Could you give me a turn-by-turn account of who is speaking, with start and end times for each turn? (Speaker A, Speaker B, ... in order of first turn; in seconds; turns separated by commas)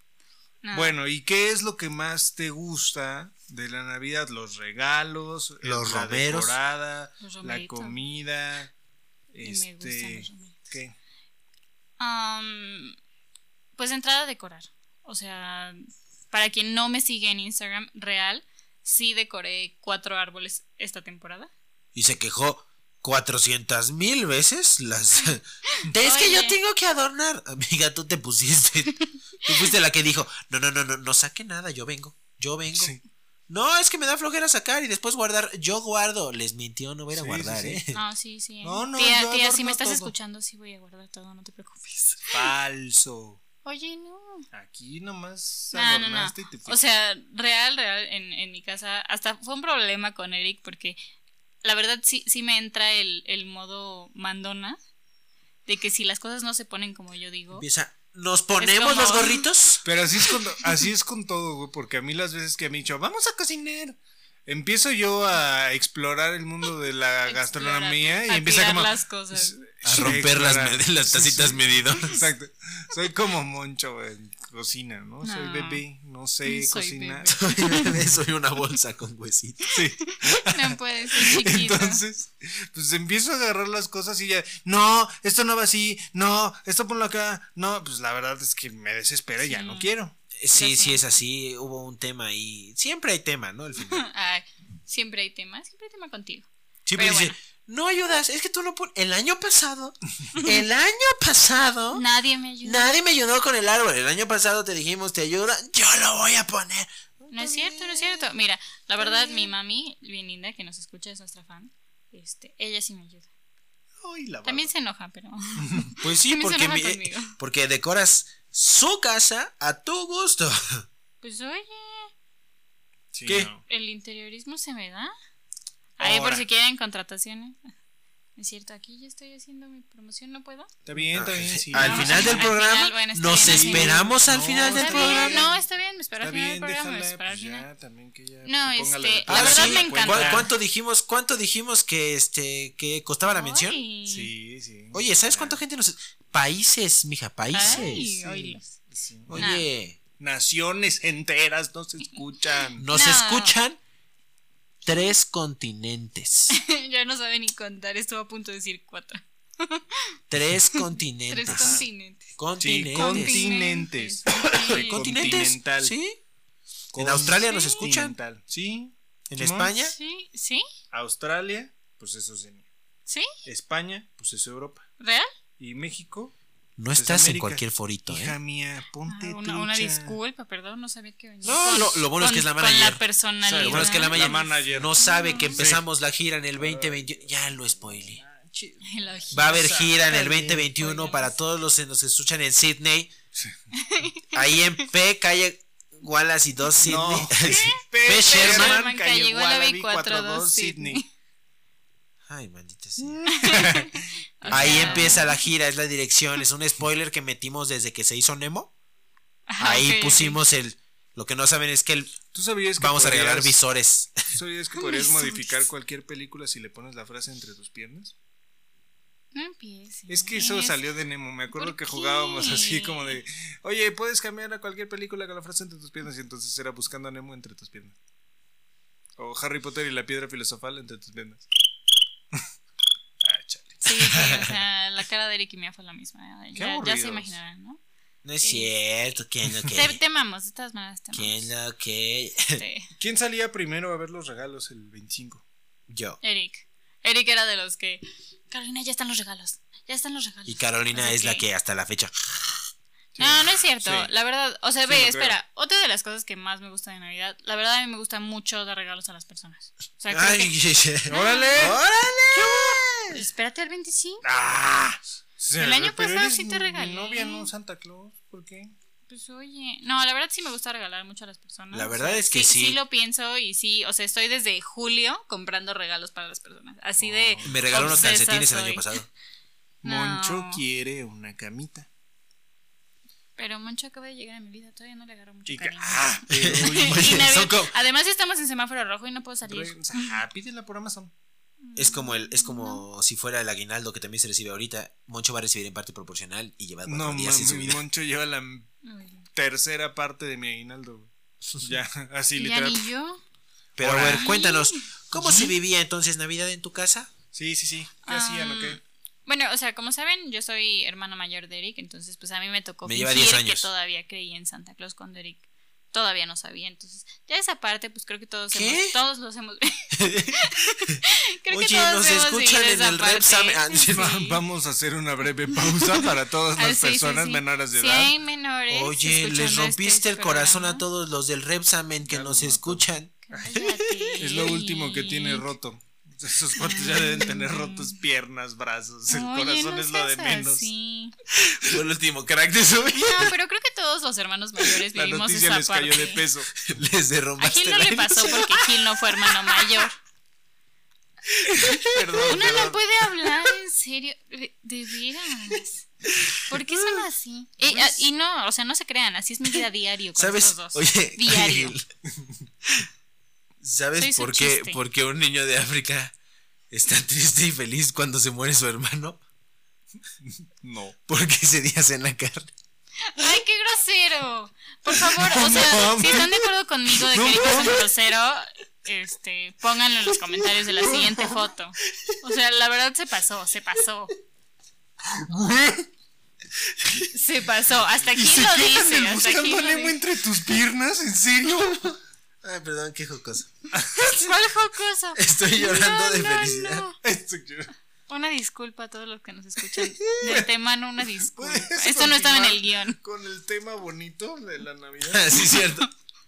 Speaker A: 0.6-1.0, Speaker B: 0.7-8.7, Speaker C: 5.6-6.6, Speaker A: 7.2-8.0, Speaker B: 9.3-10.9, Speaker A: 9.4-10.7, Speaker A: 12.0-13.0, Speaker A: 13.8-21.5, Speaker C: 21.9-32.9, Speaker A: 25.7-26.6, Speaker A: 29.0-29.5, Speaker B: 32.7-33.0, Speaker C: 33.5-38.0, Speaker B: 37.1-37.8, Speaker A: 37.9-42.5, Speaker B: 38.6-40.1, Speaker B: 42.3-43.4, Speaker A: 43.6-44.5, Speaker B: 44.5-46.8, Speaker A: 45.7-51.0, Speaker A: 51.6-54.8, Speaker A: 55.7-57.6, Speaker C: 57.5-59.9, Speaker A: 58.6-59.4, Speaker B: 59.8-78.1, Speaker A: 67.3-69.5, Speaker C: 69.8-72.2, Speaker A: 75.2-75.8, Speaker A: 76.5-77.7, Speaker C: 77.3-79.7, Speaker B: 79.7-90.1, Speaker A: 80.0-82.0, Speaker A: 89.5-89.9, Speaker C: 90.4-94.1, Speaker A: 90.5-91.1, Speaker A: 93.8-97.4, Speaker C: 96.9-102.0, Speaker A: 101.9-103.0, Speaker C: 102.6-108.3, Speaker A: 107.3-113.3, Speaker C: 109.0-109.5, Speaker B: 114.0-114.7, Speaker A: 114.5-117.3, Speaker B: 115.6-115.9, Speaker C: 116.0-120.8, Speaker A: 121.2-122.1, Speaker B: 123.1-123.6, Speaker C: 123.3-123.5, Speaker A: 123.7-125.1, Speaker A: 126.0-127.6, Speaker B: 126.0-126.5, Speaker A: 128.4-130.7, Speaker B: 130.9-132.5, Speaker C: 131.1-135.5, Speaker A: 131.8-137.7, Speaker B: 133.4-135.6, Speaker B: 136.2-140.5, Speaker A: 138.5-140.5, Speaker C: 139.3-143.8, Speaker A: 143.2-144.3, Speaker B: 144.1-145.6, Speaker C: 144.9-148.2, Speaker A: 147.5-148.7, Speaker B: 147.6-149.5, Speaker C: 149.3-150.0, Speaker A: 149.3-149.7, Speaker B: 150.2-152.9, Speaker C: 152.8-153.8, Speaker A: 152.9-153.6, Speaker C: 154.8-156.6, Speaker A: 156.5-160.1, Speaker C: 160.3-161.8, Speaker A: 160.7-162.3, Speaker B: 161.5-161.9, Speaker C: 162.4-163.6, Speaker B: 162.6-165.9, Speaker A: 163.0-165.4, Speaker C: 164.3-166.2, Speaker B: 166.9-169.7, Speaker C: 166.9-168.2, Speaker A: 167.4-167.8, Speaker C: 169.3-170.0, Speaker A: 169.8-170.7, Speaker B: 170.9-172.7, Speaker B: 173.4-174.9, Speaker A: 175.0-175.3, Speaker B: 175.6-176.3, Speaker C: 176.8-178.4, Speaker B: 177.0-180.2, Speaker A: 179.1-185.6, Speaker C: 181.4-183.0, Speaker B: 183.4-185.0, Speaker C: 183.6-188.2, Speaker B: 185.5-185.9, Speaker B: 186.6-190.7, Speaker A: 188.8-191.3, Speaker C: 189.3-193.1, Speaker A: 193.7-194.9, Speaker C: 194.3-198.8, Speaker B: 196.8-201.0, Speaker A: 197.4-201.1, Speaker C: 202.3-203.8, Speaker B: 203.1-205.3, Speaker A: 203.3-205.4, Speaker C: 204.5-208.7, Speaker A: 209.5-210.4, Speaker C: 209.6-212.2, Speaker B: 212.3-213.6, Speaker C: 212.8-214.2, Speaker B: 214.3-218.2, Speaker A: 214.8-215.6, Speaker A: 219.3-220.8, Speaker B: 220.1-228.0, Speaker A: 221.5-223.2, Speaker B: 229.2-231.5, Speaker B: 233.2-234.4, Speaker A: 233.8-237.8, Speaker C: 234.1-234.6, Speaker B: 236.6-237.4, Speaker C: 238.2-240.0, Speaker A: 238.4-238.7, Speaker A: 239.7-241.5, Speaker C: 241.1-242.6, Speaker A: 242.6-242.9, Speaker B: 243.0-245.4, Speaker C: 245.9-246.2, Speaker A: 246.2-251.4, Speaker C: 250.5-252.7, Speaker B: 253.2-254.1, Speaker A: 253.2-260.5, Speaker B: 254.9-255.4, Speaker C: 260.1-263.2, Speaker A: 261.1-261.8, Speaker B: 261.1-261.8, Speaker B: 262.4-262.7, Speaker A: 263.1-264.2, Speaker B: 264.2-268.7, Speaker A: 265.6-267.5, Speaker A: 269.1-278.9, Speaker C: 271.7-272.8, Speaker B: 277.0-278.1, Speaker C: 277.4-279.1, Speaker B: 279.8-281.9, Speaker A: 279.9-280.6, Speaker A: 283.4-290.2, Speaker B: 285.5-287.2, Speaker C: 286.3-287.7, Speaker B: 289.5-291.1, Speaker A: 291.6-292.8, Speaker C: 291.8-297.8, Speaker B: 296.9-298.7, Speaker A: 298.8-299.3, Speaker B: 299.4-302.8, Speaker A: 302.4-303.2, Speaker C: 303.8-307.1, Speaker B: 303.8-304.3, Speaker A: 304.1-304.9, Speaker B: 305.2-305.5, Speaker B: 307.3-308.8, Speaker A: 308.1-324.4, Speaker C: 312.9-313.7, Speaker C: 318.5-319.0, Speaker C: 319.9-321.0, Speaker C: 321.5-324.1, Speaker B: 323.9-328.1, Speaker A: 326.6-330.8, Speaker C: 328.7-334.3, Speaker B: 332.1-333.4, Speaker A: 333.3-335.5, Speaker B: 334.2-340.7, Speaker A: 336.6-337.9, Speaker A: 339.1-341.1, Speaker C: 341.3-343.3, Speaker A: 343.0-346.2, Speaker B: 344.9-346.6, Speaker C: 346.6-349.9, Speaker A: 347.4-350.0, Speaker C: 351.3-352.6, Speaker B: 351.6-352.8, Speaker A: 352.3-355.9, Speaker C: 356.1-357.0, Speaker A: 356.4-361.8, Speaker C: 360.2-361.9, Speaker C: 363.6-366.1, Speaker A: 364.0-364.8, Speaker C: 366.7-369.2, Speaker B: 370.2-371.0, Speaker C: 371.1-372.5, Speaker A: 373.0-384.1, Speaker B: 375.1-377.8, Speaker C: 380.8-381.1, Speaker B: 385.1-385.9, Speaker C: 386.8-387.1, Speaker A: 387.1-390.0, Speaker B: 388.1-391.9, Speaker C: 391.6-393.5, Speaker B: 393.7-394.2, Speaker A: 393.9-397.0, Speaker C: 395.1-396.8, Speaker B: 397.0-397.7, Speaker A: 398.1-403.0, Speaker C: 399.8-400.5, Speaker B: 401.4-405.6, Speaker C: 405.1-405.9, Speaker A: 405.4-405.9